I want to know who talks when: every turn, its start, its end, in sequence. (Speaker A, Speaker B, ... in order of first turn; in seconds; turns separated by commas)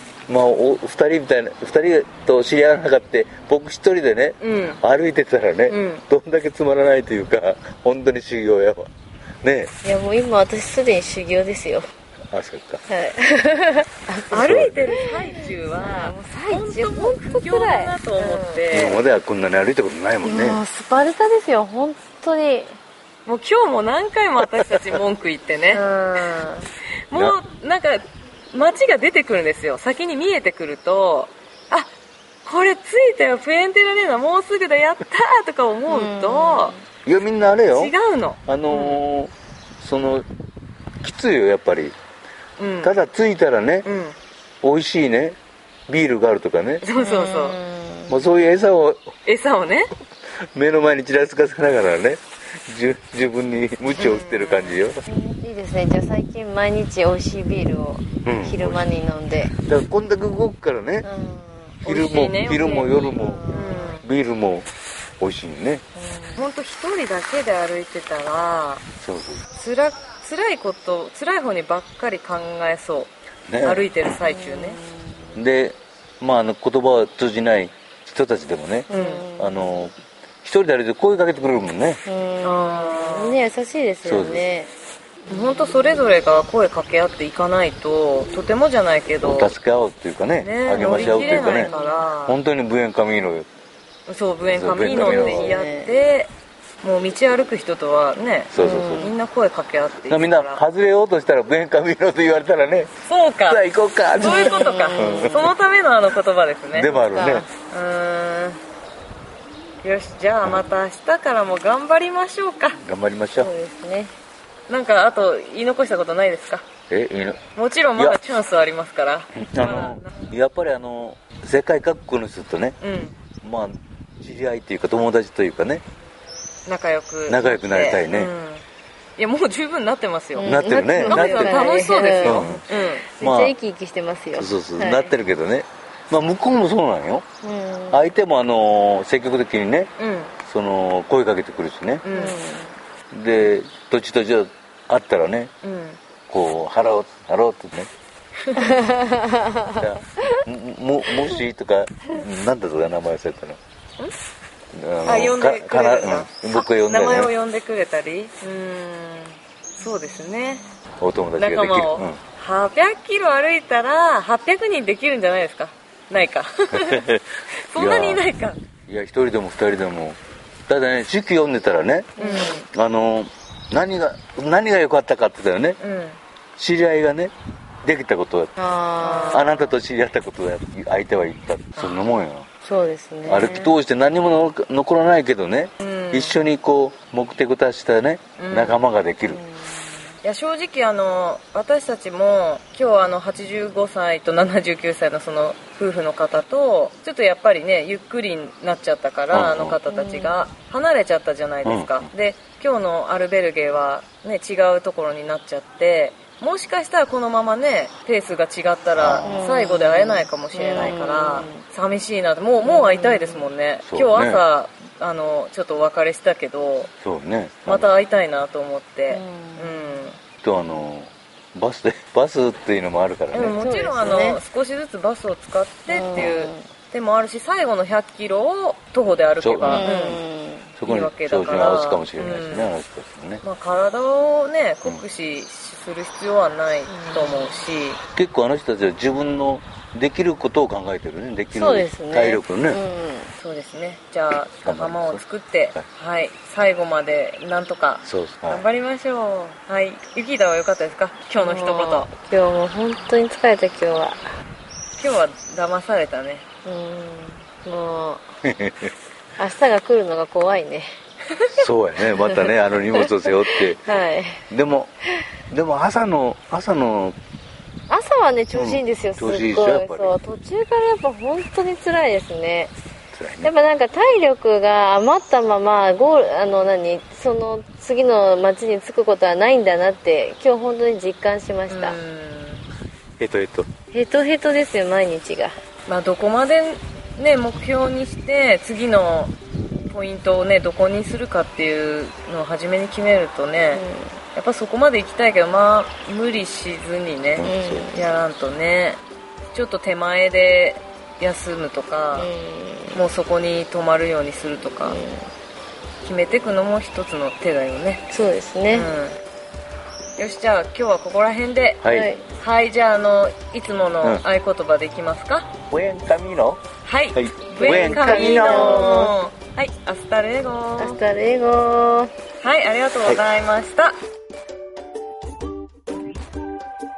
Speaker A: 0.3-8.9, Speaker B: 4.4-4.8, Speaker B: 5.7-6.0, Speaker A: 9.4-9.7, Speaker C: 9.8-11.9, Speaker A: 12.3-12.8, Speaker C: 12.9-18.6, Speaker B: 14.3-19.0, Speaker A: 14.3-14.9, Speaker A: 18.7-20.6, Speaker C: 20.2-22.8, Speaker B: 23.3-26.2, Speaker C: 25.7-26.7, Speaker B: 27.1-31.9, Speaker B: 32.4-36.8, Speaker C: 35.9-36.8, Speaker A: 37.1-37.9, Speaker B: 37.7-39.0, Speaker A: 38.5-40.3, Speaker A: 41.0-42.0, Speaker B: 42.6-43.0, Speaker A: 42.8-43.9, Speaker B: 43.8-44.2, Speaker A: 44.6-46.8, Speaker B: 46.8-47.6, Speaker C: 47.0-48.2, Speaker A: 48.1-49.1, Speaker B: 49.3-49.9, Speaker A: 50.4-55.0, Speaker B: 53.9-54.8, Speaker C: 55.1-59.5, Speaker A: 58.2-58.9, Speaker A: 59.6-61.1, Speaker C: 61.0-61.8, Speaker A: 61.9-63.5, Speaker B: 61.9-64.0, Speaker C: 63.1-64.0, Speaker A: 64.0-64.7, Speaker A: 65.2-65.8, Speaker C: 66.0-66.5, Speaker B: 66.4-68.8, Speaker A: 69.0-69.4, Speaker B: 69.5-73.1, Speaker A: 73.5-73.9, Speaker B: 73.6-74.8, Speaker C: 74.2-75.4, Speaker A: 75.4-82.0, Speaker B: 78.9-79.2, Speaker C: 78.9-79.8, Speaker C: 82.1-84.7, Speaker B: 82.4-83.4, Speaker A: 84.0-84.4, Speaker C: 85.3-86.0, Speaker B: 85.3-89.5, Speaker A: 89.2-91.7, Speaker B: 90.4-92.4, Speaker C: 90.8-92.0, Speaker A: 92.3-93.5, Speaker B: 94.1-96.3, Speaker A: 94.5-95.5, Speaker C: 94.8-96.0, Speaker B: 96.8-100.6, Speaker A: 98.5-99.1, Speaker C: 98.6-99.2, Speaker A: 100.1-102.9, Speaker B: 103.1-103.6, Speaker A: 103.5-105.5, Speaker B: 104.2-107.0, Speaker C: 104.2-105.5, Speaker A: 106.7-107.5, Speaker C: 107.0-107.5, Speaker B: 107.6-108.6, Speaker B: 109.8-112.8, Speaker A: 112.8-113.5, Speaker C: 113.4-114.1, Speaker B: 114.7-116.7, Speaker A: 116.9-117.4, Speaker B: 117.5-120.1, Speaker A: 118.0-118.2, Speaker A: 119.4-122.8, Speaker B: 122.8-123.2, Speaker A: 123.4-125.8, Speaker B: 126.7-128.6, Speaker A: 127.3-128.3, Speaker B: 129.2-130.5, Speaker C: 130.4-135.1, Speaker A: 130.4-132.6, Speaker B: 131.1-133.1, Speaker A: 133.2-133.6, Speaker A: 134.4-137.3, Speaker C: 137.4-138.0, Speaker A: 137.9-139.9, Speaker B: 140.0-140.3, Speaker A: 140.4-142.0, Speaker B: 142.0-142.4, Speaker C: 142.1-142.8, Speaker A: 143.1-145.5, Speaker B: 145.6-146.0, Speaker A: 146.3-147.9, Speaker B: 148.4-148.7, Speaker C: 148.6-150.4, Speaker A: 149.7-153.6, Speaker A: 154.7-157.3, Speaker B: 155.1-160.7, Speaker A: 161.0-162.2, Speaker B: 161.4-168.6, Speaker A: 166.7-168.2, Speaker A: 168.9-175.8, Speaker C: 172.2-172.7, Speaker B: 172.2-172.7, Speaker B: 175.8-176.2, Speaker A: 176.6-177.3, Speaker A: 177.8-178.5, Speaker C: 178.6-179.7, Speaker B: 179.0-179.4, Speaker A: 179.3-182.5, Speaker C: 182.6-183.5, Speaker A: 183.3-189.4, Speaker B: 183.3-183.7, Speaker B: 185.8-186.4, Speaker B: 188.4-188.8, Speaker C: 189.3-189.9, Speaker B: 190.2-216.9, Speaker A: 199.3-199.8, Speaker C: 199.9-200.3, Speaker A: 201.7-202.1, Speaker A: 209.0-209.5, Speaker C: 209.2-211.6, Speaker C: 212.6-213.5, Speaker A: 213.9-214.4, Speaker A: 217.0-217.9, Speaker B: 217.7-220.2, Speaker C: 219.1-220.0, Speaker A: 220.4-223.6, Speaker B: 223.3-230.2, Speaker C: 223.4-224.4, Speaker C: 225.9-226.7, Speaker A: 229.4-229.9, Speaker C: 229.7-230.7, Speaker A: 230.8-233.4, Speaker B: 230.8-232.7, Speaker B: 233.4-238.0, Speaker C: 236.9-237.6, Speaker A: 238.2-242.8, Speaker C: 241.5-243.3, Speaker B: 243.4-252.1, Speaker A: 244.6-245.2, Speaker A: 248.0-248.7, Speaker C: 251.4-254.3, Speaker B: 255.0-256.4, Speaker C: 256.6-258.3, Speaker A: 258.4-258.9, Speaker C: 259.4-260.9, Speaker A: 261.5-263.8, Speaker C: 262.0-264.4, Speaker A: 264.5-264.9, Speaker A: 265.5-267.2, Speaker C: 267.9-272.7, Speaker A: 268.5-270.2, Speaker A: 273.1-273.5, Speaker C: 273.4-282.0, Speaker B: 281.7-282.6, Speaker A: 283.2-283.7, Speaker C: 283.9-285.6, Speaker B: 285.9-289.4, Speaker B: 289.9-299.0, Speaker C: 293.7-294.2, Speaker A: 297.4-297.9, Speaker C: 297.4-298.1, Speaker B: 299.5-302.3, Speaker C: 302.1-303.0, Speaker B: 302.9-305.0, Speaker C: 304.9-305.3, Speaker B: 306.0-308.0, Speaker C: 308.1-308.9, Speaker B: 308.7-309.2, Speaker B: 310.2-311.8, Speaker A: 311.8-312.1, Speaker C: 311.9-312.2, Speaker B: 312.4-315.5, Speaker A: 315.7-316.6, Speaker B: 316.8-321.0, Speaker A: 317.1-319.1, Speaker C: 317.6-319.1, Speaker C: 320.8-322.1, Speaker B: 322.4-324.0